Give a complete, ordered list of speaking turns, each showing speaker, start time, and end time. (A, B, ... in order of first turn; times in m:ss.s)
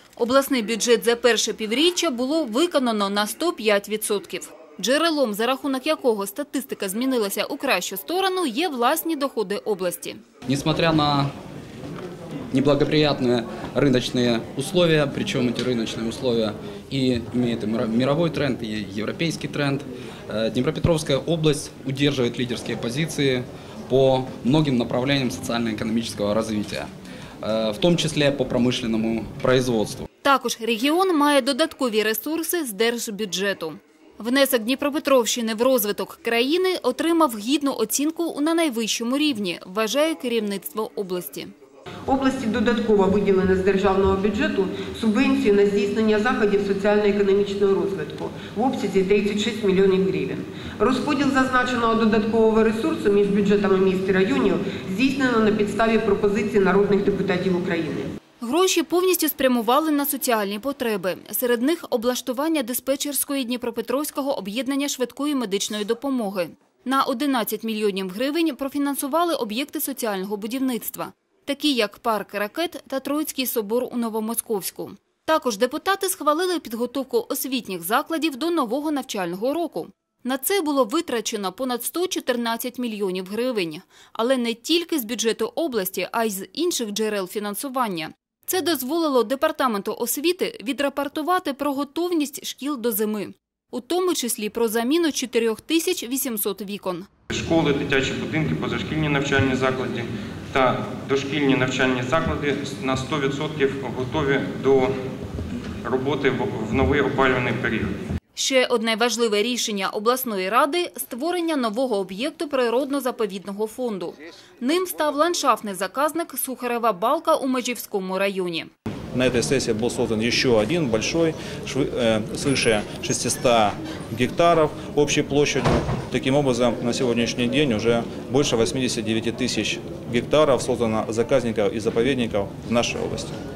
0:00.2-0:10.2 A
0:10.5-0:11.3 B
0:12.5-0:26.9 B
0:27.4-0:30.1 B
0:30.2-0:41.5 A
0:42.1-0:58.1 C
0:58.4-1:37.1 A
1:37.3-1:44.9 D
1:45.8-1:47.9 D
1:48.4-1:58.7 A
1:59.1-2:13.4 E